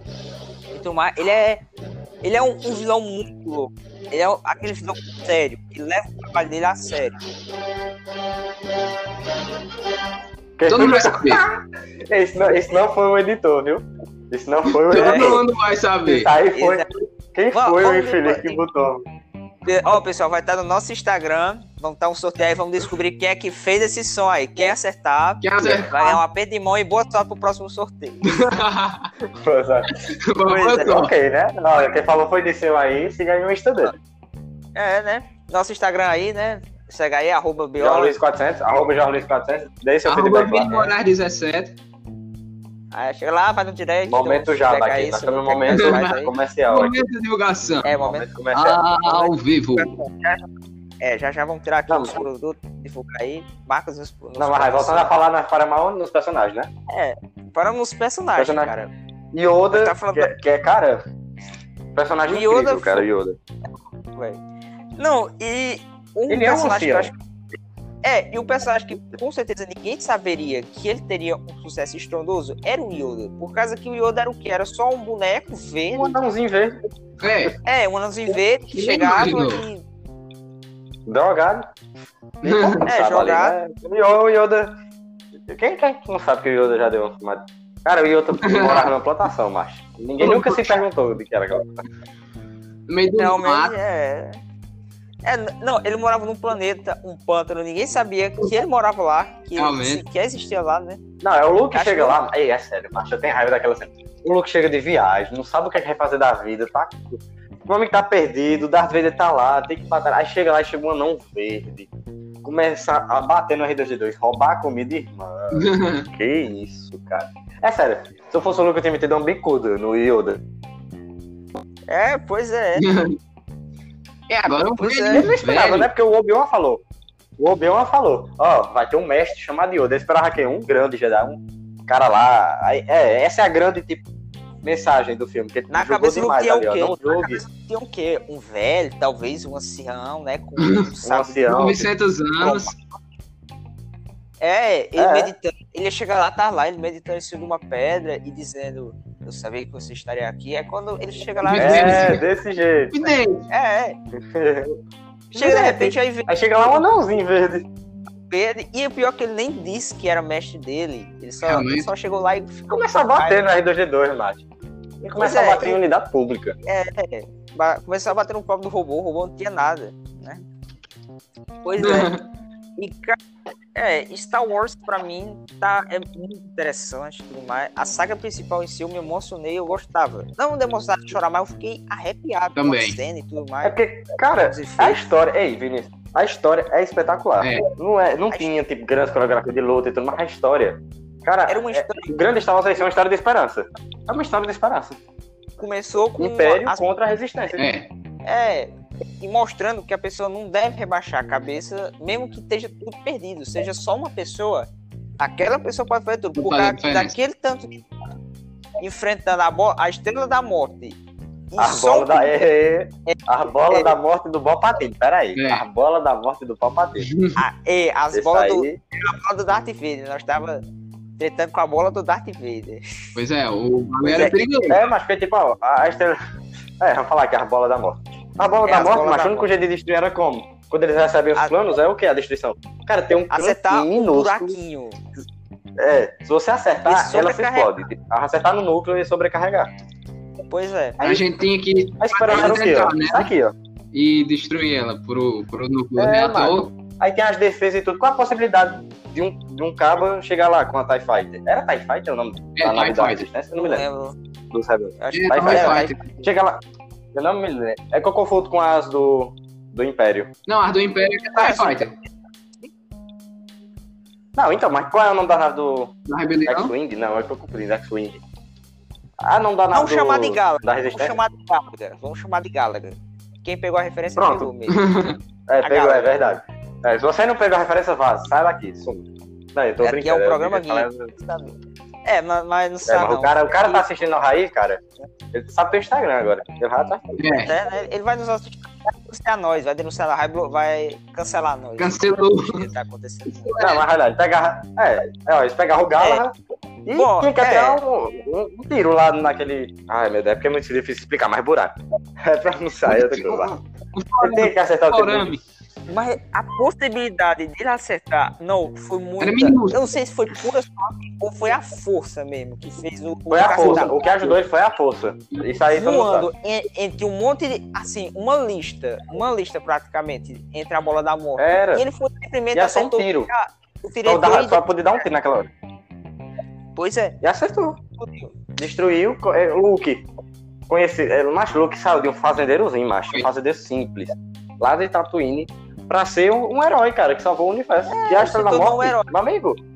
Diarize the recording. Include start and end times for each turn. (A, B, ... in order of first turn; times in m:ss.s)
0:00.7-0:01.6 A
0:02.2-0:07.2 A
0:10.6-0:15.5 B
0:10.7-0:11.4 C
0:14.8-0:16.3 C
0:15.0-0:15.4 A
0:16.0-0:19.0 B
0:16.5-0:16.9 A
0:17.5-0:18.6 A
0:19.6-0:28.5 A
0:25.4-0:26.2 C
0:25.6-0:25.9 B
0:28.3-0:29.1 C
0:29.3-0:29.9 B
0:29.9-0:31.1 C
0:30.5-0:31.0 A
0:30.8-0:33.9 B
0:34.8-0:38.2 A
0:37.8-0:41.0 B
0:40.1-0:41.8 C
0:42.9-0:46.3 A
0:44.1-0:47.0 B
0:45.7-0:46.1 C
0:46.7-0:48.0 C
0:47.8-0:48.3 A
0:48.0-0:48.8 B
0:48.5-0:50.0 C
0:49.0-0:55.2 A
0:51.9-0:52.2 B
0:54.4-0:56.7 B
0:56.9-0:58.9 A
0:58.4-0:58.7 B
0:59.3-1:01.1 B
0:59.7-1:00.4 A
1:02.0-1:03.4 B
1:02.3-1:03.1 A
1:04.2-1:04.4 A
1:05.0-1:07.2 A
1:06.3-1:07.1 B
1:08.0-1:16.2 A
1:16.0-1:16.9 B
1:17.2-1:17.6 C
1:17.6-1:19.8 A
1:18.7-1:19.6 C
1:21.1-1:21.7 B
1:22.4-1:22.9 C
1:22.4-1:24.8 B
1:22.8-1:23.6 A
1:25.5-1:31.8 B
1:28.4-1:28.9 C
1:30.2-1:30.8 C
1:32.9-1:33.8 C
1:33.2-1:34.4 A
1:35.2-1:41.0 A
1:39.6-1:40.0 C
1:41.2-1:51.9 B
1:41.7-1:42.2 A
1:52.4-2:00.4 B
1:55.5-1:56.1 C
2:01.9-2:02.9 A
2:02.8-2:03.2 C
2:04.3-2:05.9 C
2:04.8-2:05.3 A
2:05.1-2:06.8 B
2:07.4-2:14.0 B
2:14.6-2:17.4 B
2:15.7-2:21.7 A
2:20.6-2:20.9 C
2:21.0-2:21.9 B
2:21.5-2:22.7 C
2:22.4-2:22.8 A
2:24.4-2:32.2 A
2:25.0-2:25.3 B
2:31.4-2:32.2 C
2:31.6-2:33.1 B
2:32.9-2:33.5 C
2:33.5-2:34.0 A
2:34.2-2:34.8 B
2:35.3-2:37.7 B
2:35.3-2:36.8 A
2:38.3-2:43.5 A
2:41.4-2:41.9 C
2:42.7-2:44.4 B
2:45.0-2:45.8 A
2:45.1-2:46.6 B
2:46.7-2:50.4 A
2:51.6-2:52.1 A
2:51.8-2:52.3 C
2:52.8-2:53.2 A
2:53.8-3:03.8 A
3:02.6-3:03.0 C
3:03.6-3:15.0 B
3:04.3-3:05.0 A
3:07.4-3:07.7 C
3:11.5-3:12.1 A
3:15.6-3:16.8 A
3:16.2-3:17.6 B
3:17.6-3:17.9 C
3:18.2-3:24.7 A
3:25.2-3:27.9 A
3:26.4-3:27.2 C
3:28.8-3:31.0 A
3:31.5-3:32.4 A
3:31.6-3:37.1 B
3:33.1-3:33.9 A
3:35.4-3:35.6 C
3:37.0-3:37.4 C
3:37.4-3:40.6 A
3:38.1-3:38.8 B
3:41.2-3:43.2 A
3:43.2-3:44.8 C
3:44.0-3:44.4 A
3:44.7-3:46.2 B
3:46.8-3:54.6 B
3:48.6-3:49.5 A
3:53.3-3:55.0 A
3:55.8-3:59.7 B
3:56.8-3:57.8 A
4:00.5-4:01.0 A
4:01.0-4:03.3 C
4:01.0-4:01.3 B
4:02.0-4:03.6 B
4:03.9-4:06.7 C
4:06.0-4:13.8 B
4:12.6-4:13.3 C
4:13.6-4:14.2 A
4:14.5-4:16.6 B
4:15.0-4:16.3 A
4:15.1-4:16.0 C
4:17.2-4:20.3 B
4:20.5-4:22.0 C
4:21.3-4:22.1 A
4:24.4-4:25.9 B
4:26.1-4:26.7 C
4:26.5-4:28.2 B
4:29.2-4:31.2 B
4:29.7-4:34.9 A
4:34.2-4:34.5 B
4:34.7-4:35.2 C
4:35.5-4:41.1 B
4:35.6-4:36.3 A
4:39.8-4:43.9 A
4:42.9-4:44.8 B
4:45.3-4:47.3 B
4:47.2-4:47.5 C
4:47.4-4:53.7 A
4:51.8-4:52.7 C
4:53.3-4:53.8 C
4:53.6-5:03.5 B
4:56.9-4:57.8 A
5:02.9-5:05.4 C
5:04.2-5:05.3 B
5:05.9-5:14.1 A
5:09.2-5:09.8 C
5:13.3-5:16.3 B
5:13.6-5:13.9 C
5:15.7-5:24.7 A
5:21.4-5:21.8 B
5:22.5-5:23.3 B
5:24.0-5:25.5 B
5:26.8-5:27.2 A
5:27.2-5:27.8 B
5:28.0-5:28.3 A
5:28.6-5:30.1 B
5:30.7-5:39.6 B
5:37.9-5:39.1 A